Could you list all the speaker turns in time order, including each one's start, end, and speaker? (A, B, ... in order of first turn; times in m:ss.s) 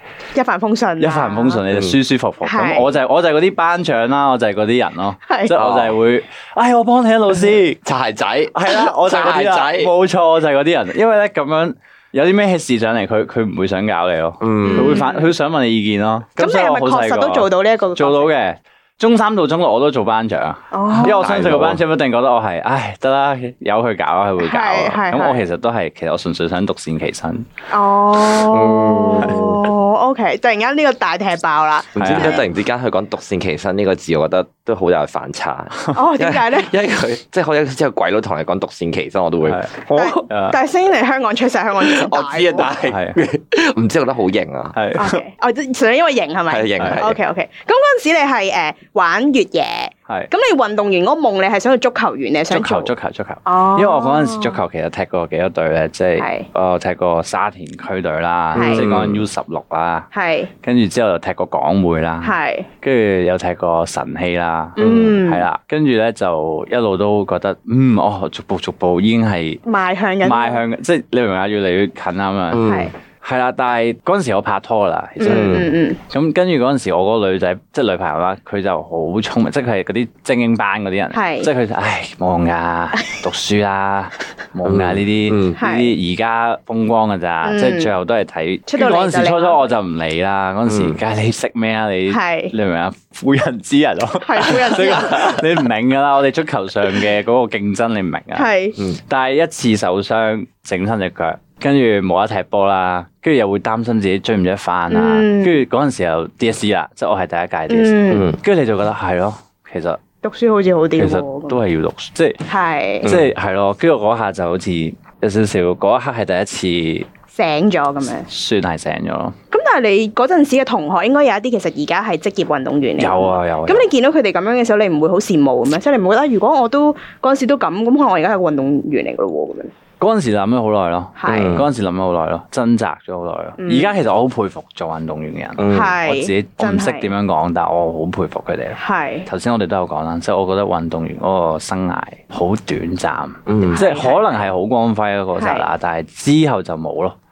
0:00.3-0:01.6 A
0:01.0-0:07.8 B
0:02.4-0:02.9 A
0:05.2-0:05.5 A
0:05.5-0:06.0 C
0:07.8-0:09.9 C
0:08.5-0:27.4 B
0:14.4-0:15.0 C
0:14.6-0:15.3 A
0:16.4-0:18.3 A
0:20.7-0:21.2 A
0:21.0-0:21.8 C
0:24.4-0:25.4 A
0:27.7-0:32.4 A
0:28.4-0:29.7 C
0:31.9-0:39.6 C
0:32.0-0:32.4 B
0:35.9-0:36.7 A
0:39.4-0:40.6 B
0:39.9-0:42.7 A
0:41.8-0:44.8 C
0:42.8-0:43.2 B
0:44.7-0:45.2 B
0:44.9-0:52.9 A
0:46.5-0:47.2 C
0:52.5-1:00.1 B
0:53.4-0:54.6 A
0:56.2-0:56.5 A
0:58.5-0:59.2 C
0:58.5-0:58.8 A
1:00.1-1:00.5 A
1:00.6-1:09.6 B
1:02.2-1:02.7 A
1:04.8-1:05.4 A
1:04.8-1:05.2 C
1:09.6-1:10.6 A
1:10.2-1:12.6 B
1:12.5-1:12.9 C
1:12.7-1:12.9 A
1:13.2-1:50.0 B
1:15.2-1:16.0 A
1:15.2-1:15.7 C
1:21.1-1:21.5 A
1:24.6-1:25.6 C
1:25.6-1:25.9 A
1:27.4-1:27.9 A
1:28.7-1:29.7 A
1:30.7-1:31.0 C
1:32.1-1:32.5 A
1:34.2-1:35.5 A
1:38.3-1:38.8 A
1:44.9-1:45.6 A
1:47.7-1:48.3 A
1:48.1-1:48.4 C
1:50.2-1:51.6 A
1:51.0-1:52.4 B
1:52.5-1:53.1 A
1:53.0-1:53.3 C
1:53.0-1:57.1 B
1:57.3-1:58.3 A
1:58.3-1:59.4 B
1:59.5-2:09.7 A
2:03.0-2:03.9 B
2:10.0-2:27.2 B
2:11.2-2:11.6 A
2:11.3-2:11.7 C
2:13.6-2:13.9 A
2:15.6-2:16.0 C
2:15.7-2:17.1 A
2:18.8-2:19.2 A
2:23.5-2:23.8 C
2:23.7-2:24.3 A
2:25.4-2:25.7 A